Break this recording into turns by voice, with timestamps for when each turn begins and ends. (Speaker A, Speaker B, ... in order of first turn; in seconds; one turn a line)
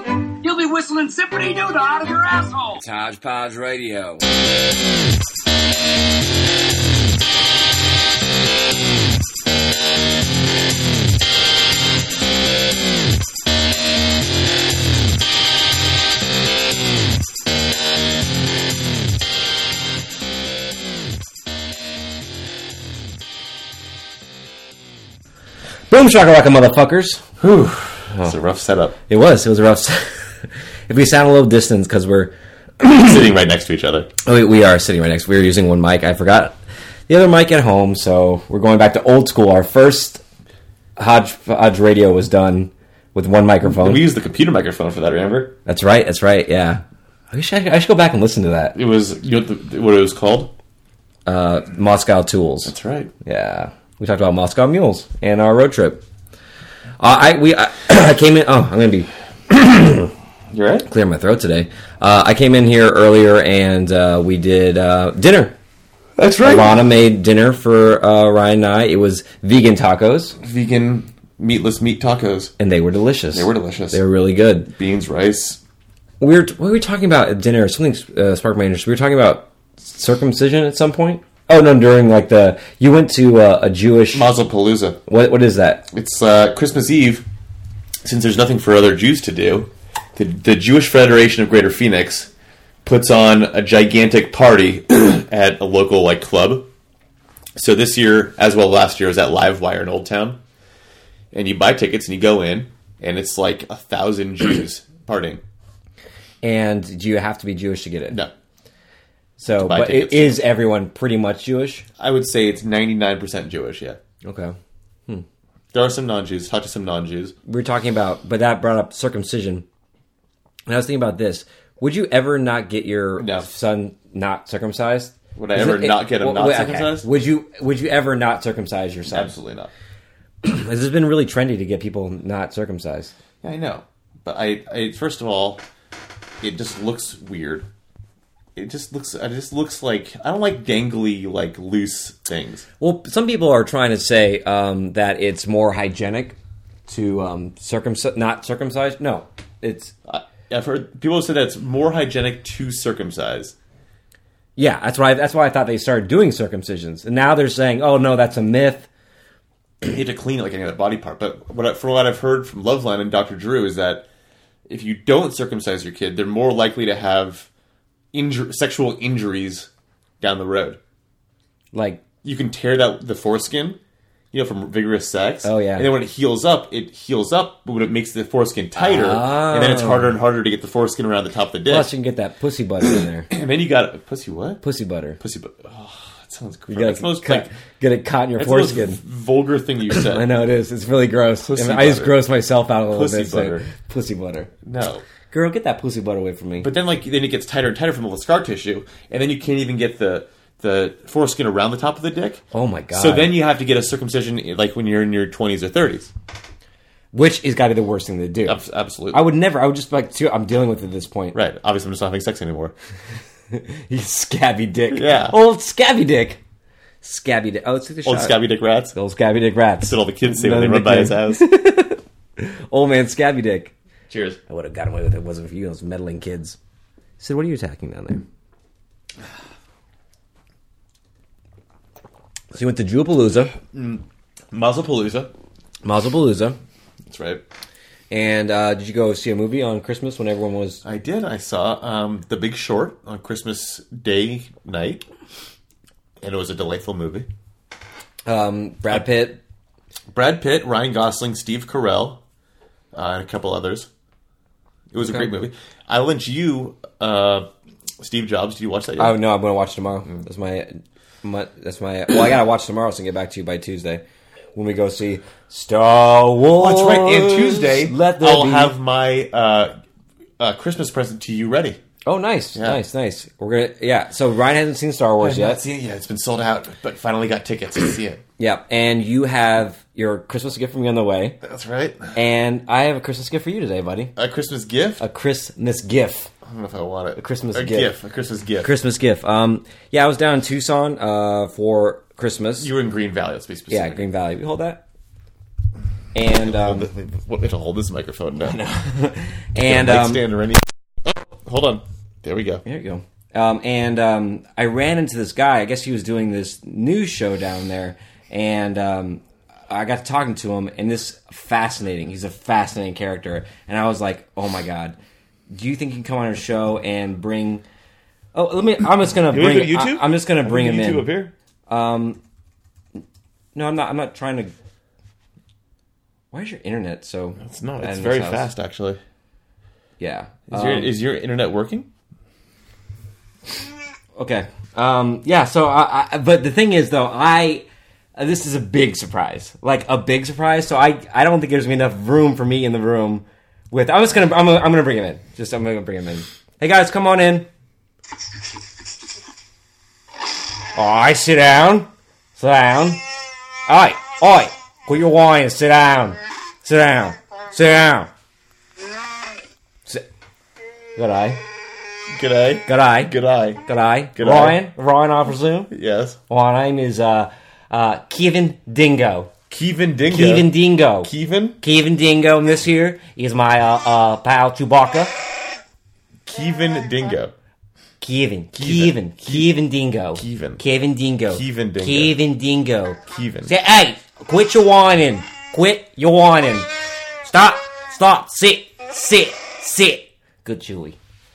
Speaker A: 0.4-2.8
Speaker B: 2.8-4.2
Speaker B: 25.9-27.2
Speaker C: 27.4-29.0
Speaker B: 29.1-32.3
Speaker C: 32.8-34.1
Speaker B: 34.2-36.5
Speaker B: 37.1-40.2
Speaker B: 41.0-44.0
Speaker C: 43.6-45.5
Speaker B: 45.6-48.7
Speaker C: 48.7-50.5
Speaker B: 51.2-56.0
Speaker C: 52.6-53.1
Speaker B: 57.0-60.1
Speaker C: 60.5-60.9
Speaker B: 60.9-65.6
Speaker C: 66.2-66.7
Speaker B: 66.4-70.4
Speaker C: 70.4-72.5
Speaker B: 72.6-74.7
Speaker C: 73.3-74.0
Speaker C: 74.7-75.6
Speaker B: 76.2-84.3
Speaker C: 84.1-85.0
Speaker B: 85.1-85.9
Speaker C: 85.9-87.2
Speaker C: 88.0-92.3
Speaker C: 92.8-96.7
Speaker C: 97.5-100.4
Speaker C: 101.3-105.4
Speaker B: 106.4-108.2
Speaker B: 109.4-111.8
Speaker C: 109.6-110.4
Speaker C: 112.0-114.0
Speaker B: 114.2-114.5
Speaker C: 115.7-117.3
Speaker B: 117.5-119.7
Speaker B: 120.7-129.3
Speaker C: 123.2-123.5
Speaker C: 125.3-127.1
Speaker C: 129.1-129.7
Speaker B: 130.4-133.1
Speaker C: 133.4-135.6
Speaker C: 136.4-137.7
Speaker C: 138.6-142.7
Speaker B: 142.8-149.9
Speaker C: 150.1-153.6
Speaker B: 154.6-158.9
Speaker C: 159.8-164.1
Speaker C: 164.7-167.5
Speaker C: 168.1-169.7
Speaker C: 170.2-170.8
Speaker B: 171.7-172.0
Speaker C: 172.2-173.8
Speaker C: 174.3-181.9
Speaker B: 175.4-175.9
Speaker B: 178.8-180.2
Speaker B: 181.7-183.3
Speaker C: 183.3-184.6
Speaker B: 184.6-185.2
Speaker C: 185.2-187.5
Speaker B: 186.7-189.0
Speaker C: 188.3-190.3
Speaker B: 189.9-194.5
Speaker C: 191.4-192.2
Speaker C: 192.9-193.7
Speaker C: 194.6-195.0
Speaker B: 195.3-196.7
Speaker C: 196.6-202.4
Speaker B: 202.5-203.3
Speaker C: 202.9-206.1
Speaker B: 207.1-208.6
Speaker C: 208.4-209.3
Speaker B: 209.1-211.4
Speaker C: 211.3-212.7
Speaker B: 213.5-216.4
Speaker C: 214.9-215.3
Speaker B: 217.0-223.7
Speaker C: 218.0-218.9
Speaker C: 219.8-221.4
Speaker C: 224.1-224.4
Speaker B: 224.5-226.6
Speaker B: 227.2-228.2
Speaker B: 232.5-233.5
Speaker C: 233.7-235.3
Speaker B: 235.8-236.6
Speaker C: 237.1-237.4
Speaker B: 238.1-240.8
Speaker C: 240.8-245.0
Speaker C: 246.2-247.3
Speaker B: 248.2-249.4
Speaker C: 250.1-252.2
Speaker C: 252.9-253.9
Speaker C: 254.9-257.5
Speaker B: 255.0-255.3
Speaker C: 258.0-259.2
Speaker B: 259.0-264.0
Speaker B: 264.5-268.8
Speaker C: 266.6-269.7
Speaker C: 270.4-271.8
Speaker B: 272.1-275.6
Speaker C: 272.5-272.8
Speaker C: 275.2-278.2
Speaker B: 278.4-281.4
Speaker C: 281.4-282.1
Speaker B: 282.1-284.1
Speaker C: 284.1-285.0
Speaker B: 285.0-286.3
Speaker C: 286.4-288.7
Speaker B: 287.2-287.9
Speaker B: 288.6-292.7
Speaker C: 292.6-294.1
Speaker B: 293.7-294.8
Speaker B: 296.1-296.9
Speaker C: 296.3-298.6
Speaker B: 298.4-300.2
Speaker C: 299.6-302.6
Speaker B: 302.6-314.9
Speaker B: 315.5-317.6
Speaker B: 318.3-321.1
Speaker C: 319.3-321.3
Speaker B: 321.7-322.2
Speaker B: 323.5-324.5
Speaker B: 326.3-328.5
Speaker C: 327.4-329.0
Speaker B: 330.0-330.9
Speaker C: 330.5-331.9
Speaker B: 334.1-347.5
Speaker B: 350.7-353.0
Speaker B: 353.7-358.1
Speaker B: 361.0-361.4
Speaker C: 362.1-363.6
Speaker B: 362.7-363.1
Speaker B: 363.6-365.7
Speaker C: 364.1-364.6
Speaker C: 365.7-366.2
Speaker B: 366.3-369.3
Speaker C: 369.5-371.6
Speaker B: 370.1-371.1
Speaker B: 371.6-375.1
Speaker C: 376.2-377.3
Speaker B: 378.0-386.7
Speaker C: 378.5-379.6
Speaker C: 380.1-380.6
Speaker C: 381.3-382.2
Speaker C: 383.1-383.5
Speaker B: 387.2-391.0